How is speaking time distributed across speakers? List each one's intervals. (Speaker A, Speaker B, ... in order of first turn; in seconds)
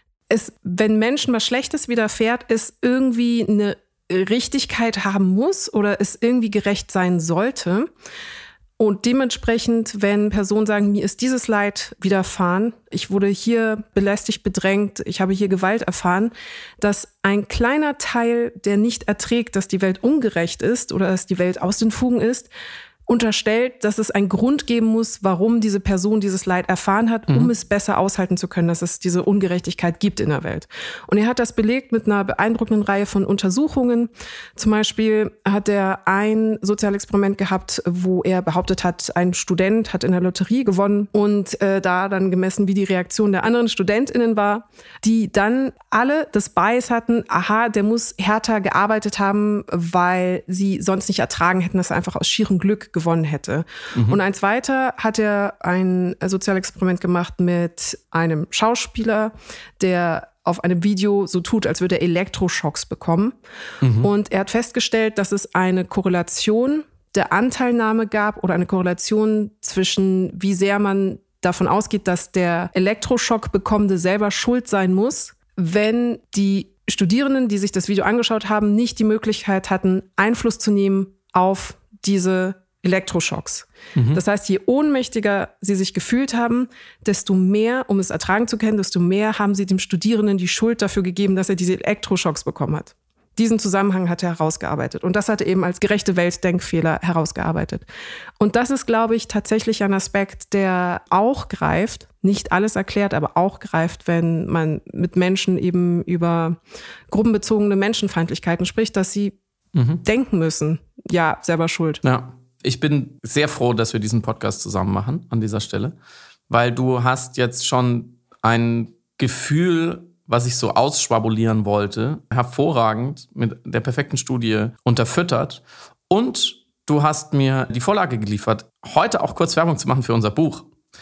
Speaker A: 0.3-7.9, 8.8-22.5, 23.1-63.4, 64.0-97.8, 98.4-106.6, 107.1-109.4, 110.0-112.0
Speaker B: 63.8-64.1, 84.0-84.2, 109.8-110.0, 112.0-116.0, 116.5-130.7